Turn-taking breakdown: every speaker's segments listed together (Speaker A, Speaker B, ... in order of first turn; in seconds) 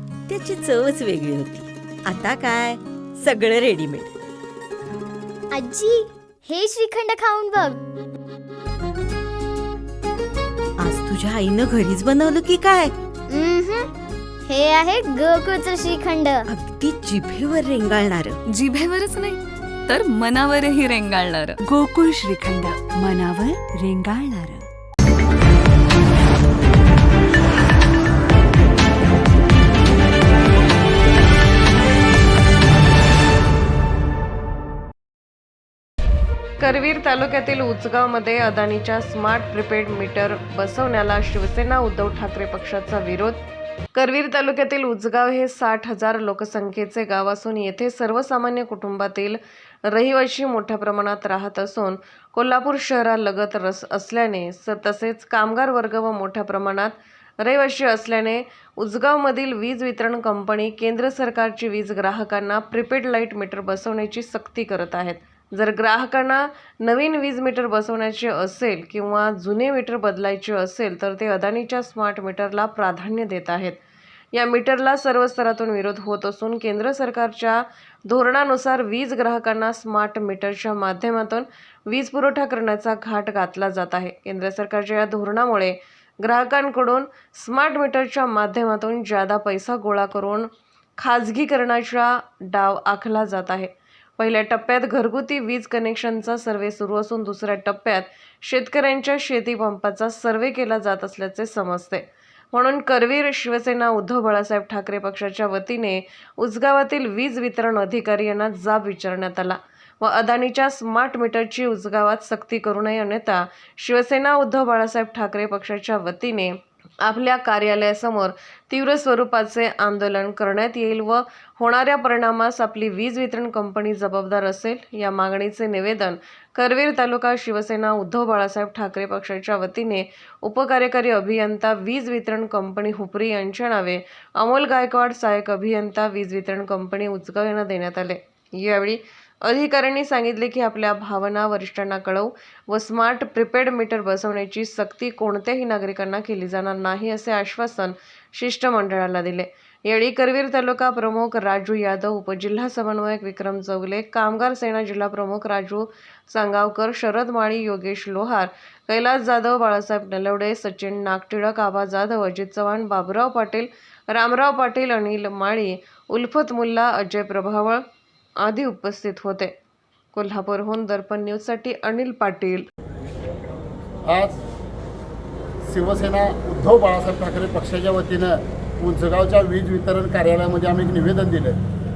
Speaker A: 0.3-4.1, 10.8-12.9, 16.5-18.4
Speaker B: 5.5-7.8, 13.3-13.9, 14.5-16.4
Speaker C: 18.5-21.6
Speaker D: 21.8-24.6
Speaker E: 36.6-43.4, 43.9-73.8, 74.3-167.8, 168.4-169.5, 170.1-172.7
Speaker F: 174.1-174.4, 175.6-181.6